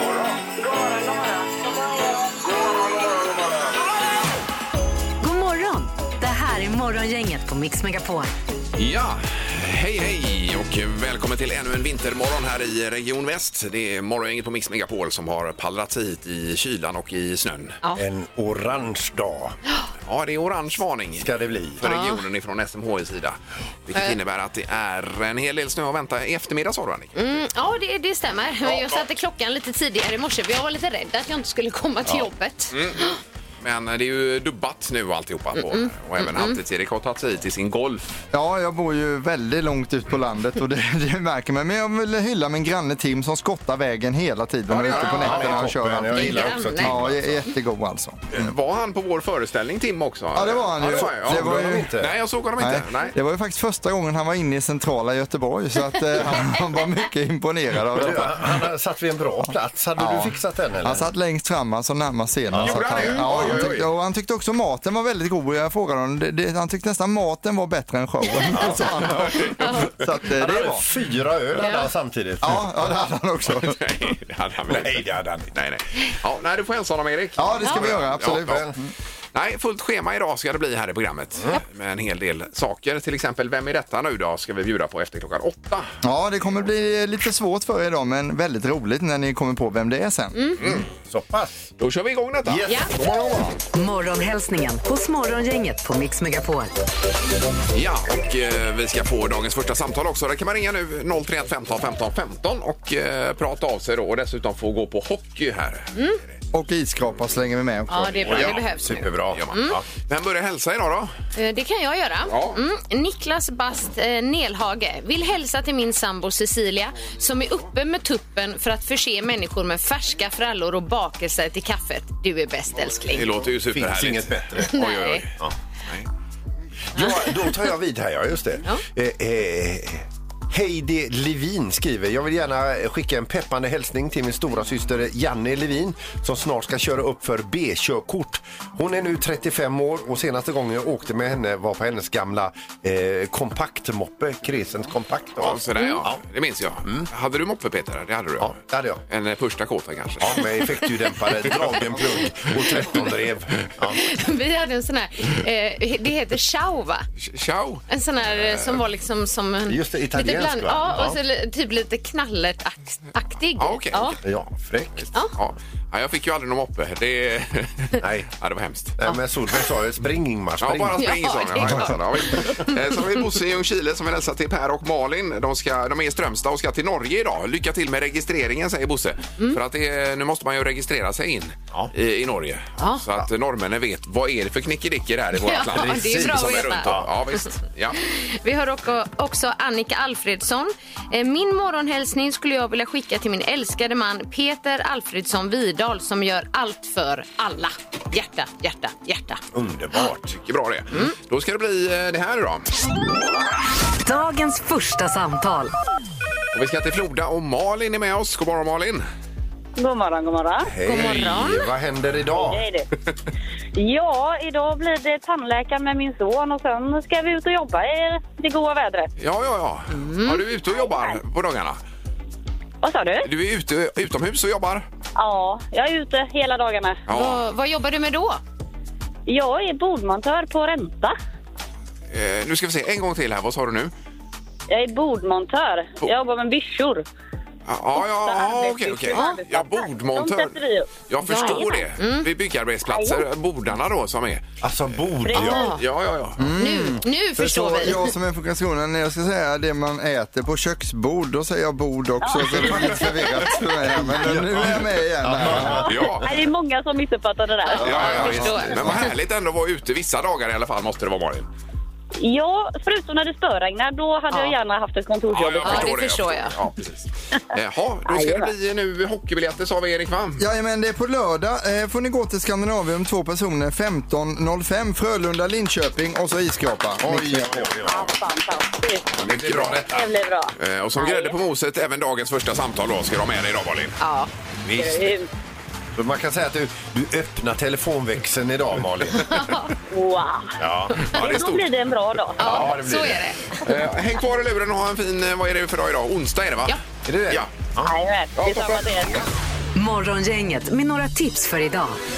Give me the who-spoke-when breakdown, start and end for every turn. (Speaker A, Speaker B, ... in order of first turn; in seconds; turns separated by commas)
Speaker A: 5.2-8.3, Speaker B: 8.8-17.8, Speaker C: 17.9-19.6, Speaker B: 20.1-27.1, Speaker C: 21.2-21.8, Speaker D: 21.8-22.2, Speaker D: 27.2-33.2, Speaker B: 28.6-29.1, Speaker B: 32.7-33.0, Speaker B: 33.6-38.1, Speaker D: 35.6-36.6, Speaker E: 38.3-48.5, Speaker B: 44.7-45.7, Speaker C: 44.8-47.4, Speaker D: 46.1-47.0, Speaker B: 48.3-53.1, Speaker E: 50.3-51.9, Speaker C: 50.8-52.1, Speaker E: 52.6-58.6, Speaker C: 57.9-61.1, Speaker E: 59.4-70.9, Speaker C: 62.5-63.7, Speaker B: 62.5-63.9, Speaker C: 68.5-69.4, Speaker B: 68.6-69.5, Speaker C: 70.3-72.7, Speaker D: 71.6-71.9, Speaker E: 72.4-73.8, Speaker B: 73.5-78.6, Speaker C: 74.7-75.5, Speaker E: 77.4-78.9, Speaker D: 77.6-77.9, Speaker C: 78.1-78.8, Speaker B: 79.3-85.9, Speaker E: 86.0-90.5, Speaker B: 90.6-90.9, Speaker C: 90.9-91.6, Speaker B: 91.8-93.6, Speaker C: 92.5-92.9, Speaker A: 93.7-96.7, Speaker B: 97.7-105.9, Speaker E: 106.5-108.5, Speaker D: 107.9-109.8, Speaker C: 108.2-109.8, Speaker B: 109.3-111.1, Speaker D: 111.3-123.3, Speaker B: 112.3-112.6, Speaker B: 123.1-126.1, Speaker C: 123.7-124.7, Speaker D: 124.7-125.2, Speaker C: 127.0-146.2, Speaker D: 127.0-127.3, Speaker B: 145.4-148.6, Speaker C: 148.4-149.0, Speaker B: 149.1-150.5, Speaker C: 150.2-154.0, Speaker D: 153.9-157.1, Speaker B: 157.2-157.8, Speaker D: 157.9-164.2, Speaker C: 159.7-161.2, Speaker B: 163.6-164.2, Speaker C: 164.2-164.9, Speaker B: 165.0-168.9, Speaker C: 168.0-168.3, Speaker C: 169.0-172.5, Speaker B: 170.6-188.0, Speaker D: 171.0-173.0, Speaker D: 182.8-183.0, Speaker D: 185.4-186.9, Speaker C: 185.7-187.1, Speaker D: 188.0-199.4, Speaker C: 199.5-200.4, Speaker B: 200.3-202.7, Speaker A: 204.0-205.7, Speaker B: 206.5-209.0, Speaker F: 209.8-210.7, Speaker C: 210.7-212.7, Speaker D: 210.8-211.7, Speaker F: 212.4-212.9, Speaker F: 213.8-219.1, Speaker B: 219.2-221.8, Speaker D: 219.9-220.4, Speaker F: 220.7-221.2, Speaker F: 222.8-223.3, Speaker B: 223.2-224.9, Speaker F: 225.2-227.0, Speaker B: 227.1-227.4, Speaker D: 227.1-228.4, Speaker F: 229.3-231.2, Speaker B: 232.1-233.9, Speaker F: 234.7-237.1, Speaker B: 237.7-244.4, Speaker F: 238.0-241.8, Speaker D: 241.2-242.3, Speaker F: 242.9-243.2, Speaker C: 244.6-245.7, Speaker F: 245.3-245.7, Speaker D: 245.3-245.8, Speaker B: 245.7-246.4, Speaker E: 246.4-256.0, Speaker D: 246.5-248.1, Speaker F: 252.2-253.1, Speaker B: 252.5-252.9, Speaker C: 253.9-256.1, Speaker B: 255.5-256.3, Speaker F: 256.2-258.3, Speaker D: 257.7-259.1, Speaker B: 257.8-261.5, Speaker E: 257.9-258.9, Speaker F: 262.2-265.9, Speaker B: 265.3-270.4, Speaker D: 265.6-266.6, Speaker F: 268.1-268.5, Speaker E: 270.4-277.7, Speaker C: 277.0-278.2, Speaker F: 277.8-279.1, Speaker C: 279.1-280.1, Speaker B: 279.2-279.9, Speaker F: 279.8-281.4, Speaker B: 280.6-284.0, Speaker D: 284.0-284.3, Speaker C: 284.6-285.1, Speaker F: 284.8-285.3, Speaker C: 285.9-289.6, Speaker D: 289.2-289.7, Speaker F: 289.9-290.5, Speaker C: 290.6-291.1, Speaker B: 291.0-291.7, Speaker F: 291.1-292.7, Speaker C: 292.4-293.3, Speaker D: 292.4-293.6, Speaker B: 293.6-296.8, Speaker C: 297.1-297.9, Speaker F: 297.8-299.3, Speaker B: 298.4-299.2, Speaker A: 299.8-302.0